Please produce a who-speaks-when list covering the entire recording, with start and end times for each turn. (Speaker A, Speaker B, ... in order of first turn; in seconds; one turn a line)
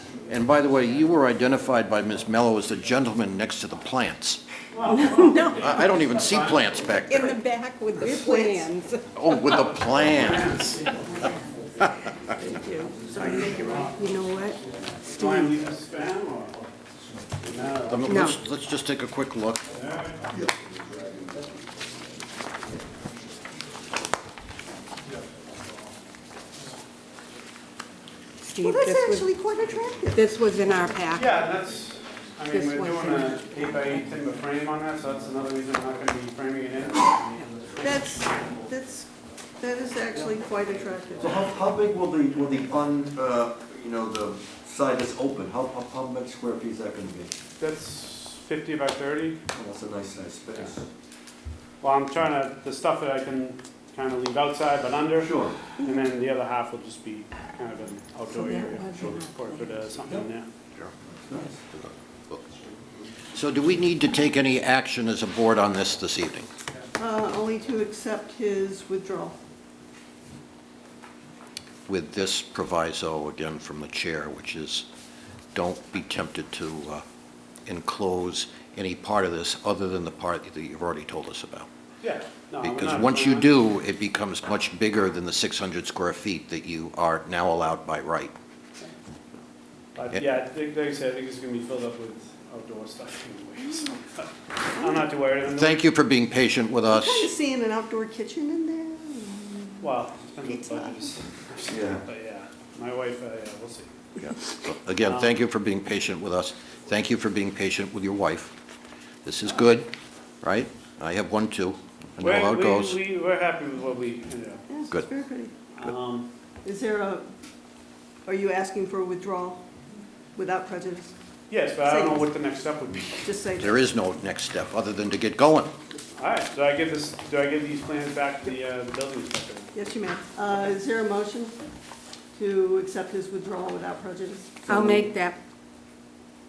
Speaker A: 0.2-4.4
Speaker B: 4.7-6.9
Speaker C: 4.9-5.8
Speaker A: 5.4-7.4
Speaker C: 7.0-9.4
Speaker D: 8.2-8.7
Speaker A: 9.1-10.6
Speaker B: 9.8-11.0
Speaker D: 12.4-13.9
Speaker C: 12.6-14.6
Speaker B: 13.6-13.9
Speaker B: 15.1-16.6
Speaker C: 15.2-15.6
Speaker B: 17.4-18.1
Speaker A: 17.9-19.6
Speaker C: 18.0-18.4
Speaker B: 19.8-20.1
Speaker C: 28.4-29.3
Speaker D: 28.6-30.3
Speaker C: 30.1-31.4
Speaker B: 31.1-38.3
Speaker C: 32.4-34.0
Speaker D: 37.8-41.4
Speaker E: 41.2-47.3
Speaker B: 47.6-49.4
Speaker E: 49.5-50.9
Speaker B: 51.8-60.5
Speaker E: 55.2-55.6
Speaker C: 58.3-60.0
Speaker E: 61.0-61.6
Speaker A: 61.7-62.4
Speaker A: 63.3-66.5
Speaker D: 67.0-69.4
Speaker A: 71.9-74.9
Speaker A: 75.5-77.0
Speaker A: 77.7-81.7
Speaker B: 82.0-83.5
Speaker A: 82.6-88.3
Speaker B: 89.9-95.8
Speaker A: 95.5-97.3
Speaker D: 96.9-99.9
Speaker B: 99.8-103.9
Speaker D: 100.4-101.1
Speaker E: 101.7-102.0
Speaker A: 104.2-108.5
Speaker B: 105.0-105.3
Speaker A: 109.2-109.9
Speaker A: 110.4-113.0
Speaker B: 112.2-114.7
Speaker D: 114.7-115.5
Speaker B: 115.7-116.3
Speaker D: 116.6-117.3
Speaker D: 118.2-119.6
Speaker D: 120.3-121.1
Speaker B: 121.5-123.2
Speaker D: 121.8-122.2
Speaker D: 123.2-123.8
Speaker A: 123.6-125.7
Speaker B: 126.2-129.7
Speaker D: 129.7-131.5
Speaker D: 132.3-135.1
Speaker C: 134.7-135.4